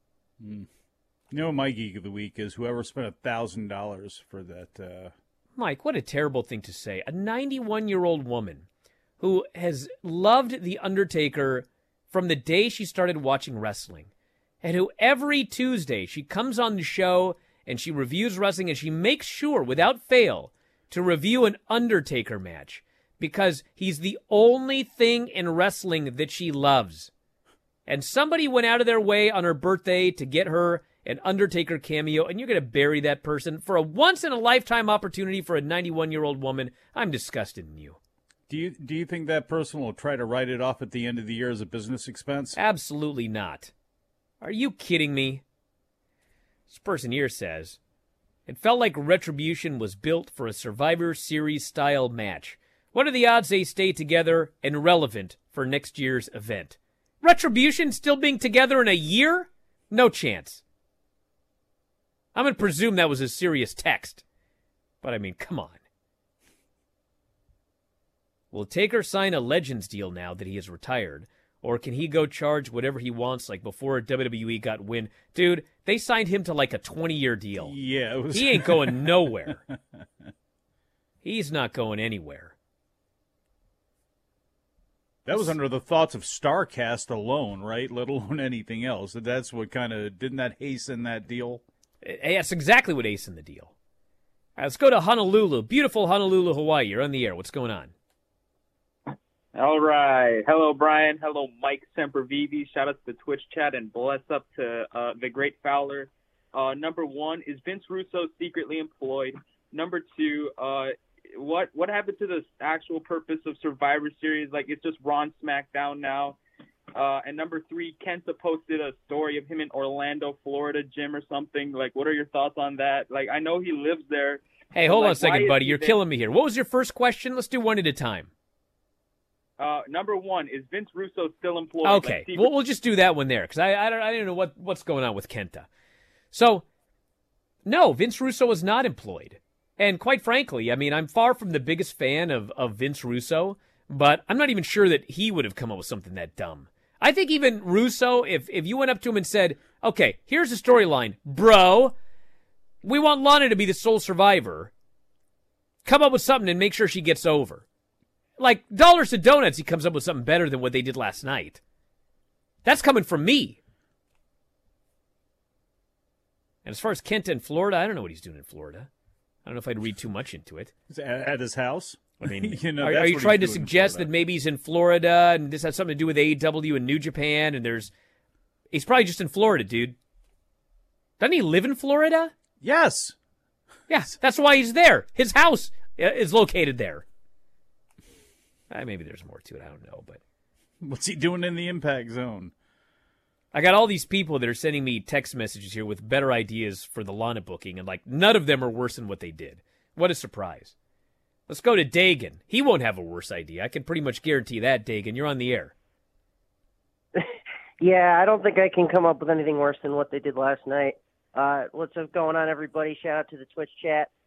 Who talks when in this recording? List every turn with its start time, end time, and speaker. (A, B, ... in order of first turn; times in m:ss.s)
0:00.4-0:00.7 A
0:01.3-0:05.1 A
0:05.6-0:08.7 B
0:09.2-0:14.1 B
0:14.6-0:27.1 B
0:27.9-0:38.0 B
0:38.5-0:42.6 A
0:42.5-0:43.7 B
0:44.4-0:45.4 B
0:46.7-0:47.8 B
0:48.5-1:00.6 B
1:02.3-1:04.2 B
1:05.0-1:05.8 B
1:08.5-1:17.7 B
1:17.6-1:19.6 A
1:18.3-1:19.6 B
1:21.2-1:22.6 B
1:25.2-1:31.6 A
1:32.0-1:33.7 B
1:34.6-1:37.9 B
1:39.5-1:56.4 C
1:56.9-2:06.0 C
2:04.7-2:08.3 B
2:09.6-2:12.5 C
2:11.8-2:15.7 B
2:16.3-2:16.6 B
2:17.6-2:31.9 B
2:32.8-2:34.7 B
2:35.8-2:37.6 B
2:38.4-2:41.6 B
2:42.6-2:43.6 B
2:46.6-2:48.9 B
2:49.4-2:50.7 B
2:50.9-2:54.1 A
2:52.2-2:57.9 B
2:58.7-3:00.0 B
3:01.2-3:02.3 B
3:02.6-3:03.2 A
3:03.9-3:07.0 B
3:08.7-3:10.2 B
3:10.8-3:12.5 A
3:13.5-3:20.7 B
3:21.5-3:25.7 B
3:27.8-3:34.1 D